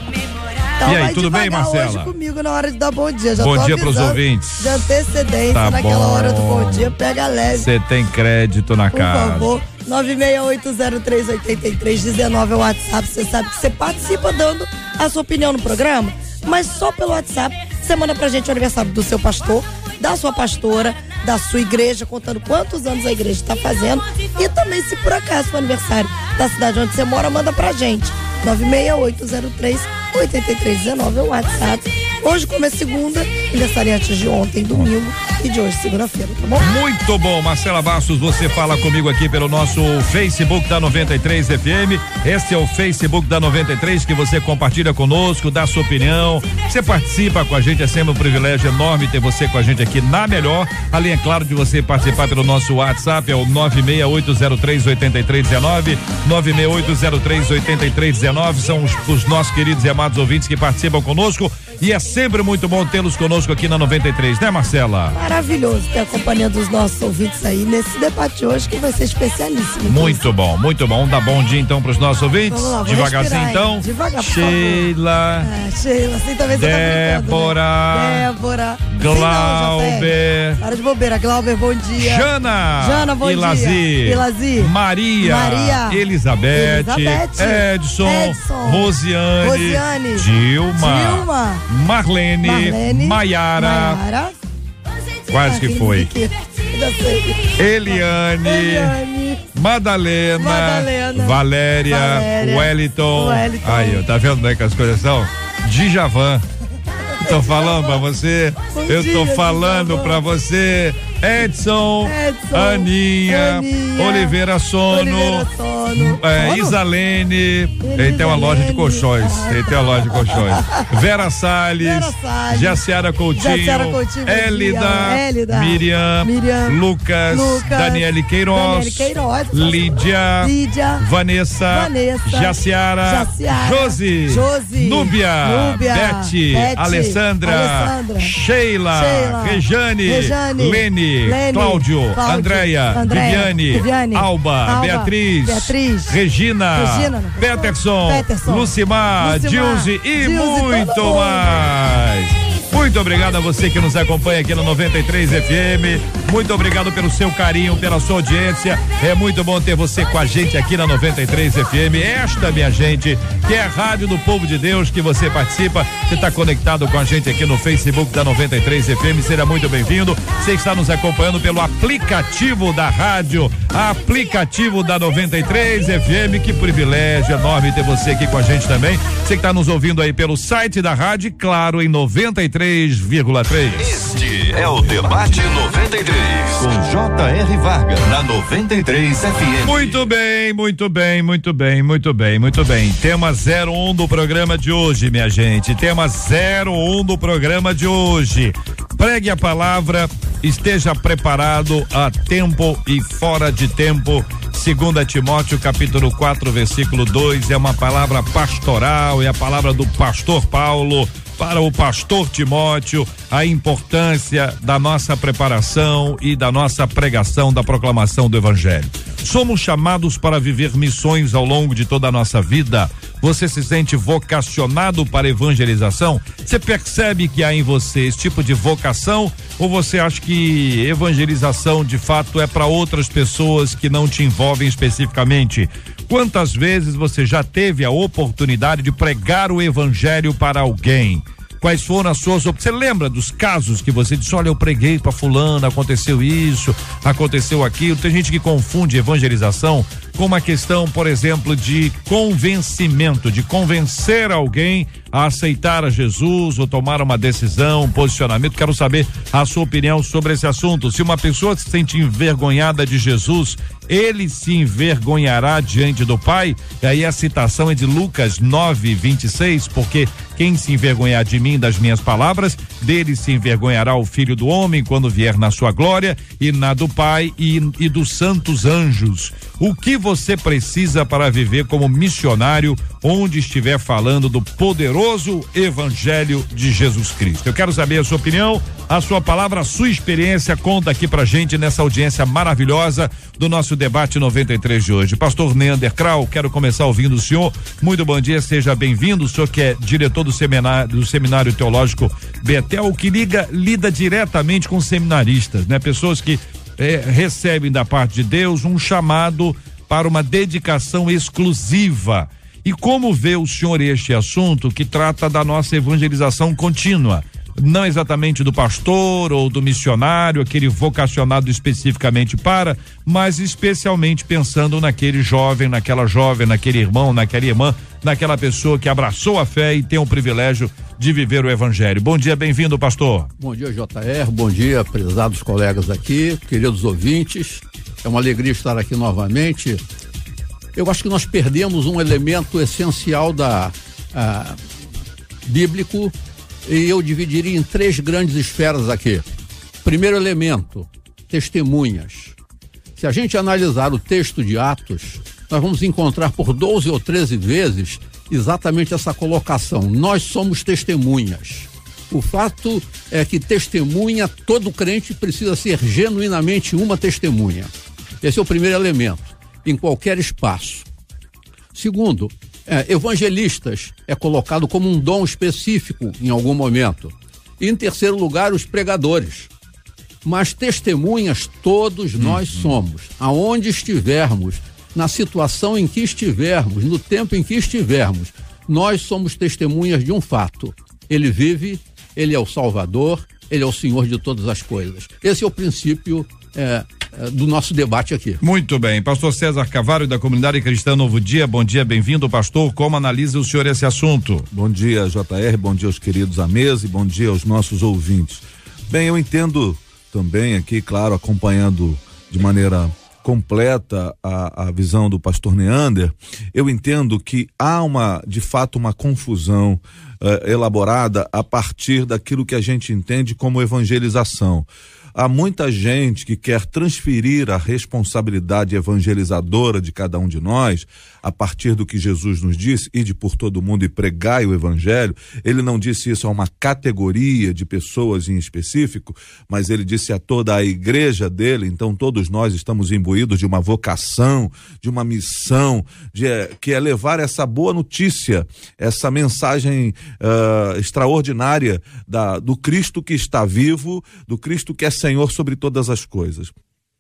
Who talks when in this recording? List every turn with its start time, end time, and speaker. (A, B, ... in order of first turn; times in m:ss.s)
0:00.8-0:07.7 A
0:00.8-0:02.1 B
0:03.4-0:04.8 B
0:05.5-0:06.9 B
0:07.5-0:09.5 B
0:08.9-0:36.7 A
0:36.6-1:05.2 B
1:05.1-1:10.3 A
1:09.8-1:15.5 B
1:12.5-1:14.9 A
1:15.4-1:22.3 A
1:16.5-1:18.3 B
1:18.9-1:20.6 B
1:22.0-1:34.0 B
1:22.8-1:26.0 A
1:26.5-1:31.7 A
1:32.4-1:34.4 A
1:35.3-1:36.1 B
1:35.4-1:39.5 A
1:37.6-1:39.0 B
1:39.6-1:46.4 B
1:40.4-1:44.0 A
1:47.2-1:48.0 A
1:47.2-3:03.9 B
1:48.7-1:50.2 A
1:52.0-1:54.4 A
1:54.9-1:56.8 A
1:57.8-2:00.9 A
2:01.8-2:02.8 A
2:03.4-2:11.0 A
2:11.7-2:18.3 A
2:18.9-2:26.2 A
2:26.7-2:28.7 A
2:29.2-2:31.5 A
3:03.8-3:10.0 C
3:09.6-5:33.3 B
5:33.4-5:39.8 D
5:40.8-5:44.6 D
5:45.5-5:46.1 D
5:46.7-5:49.3 D
5:49.8-5:52.4 D
5:53.0-6:10.9 D
6:11.7-6:19.5 D
6:20.2-6:38.4 D
6:22.2-6:22.7 B
6:38.4-6:44.5 B
6:44.5-7:36.5 E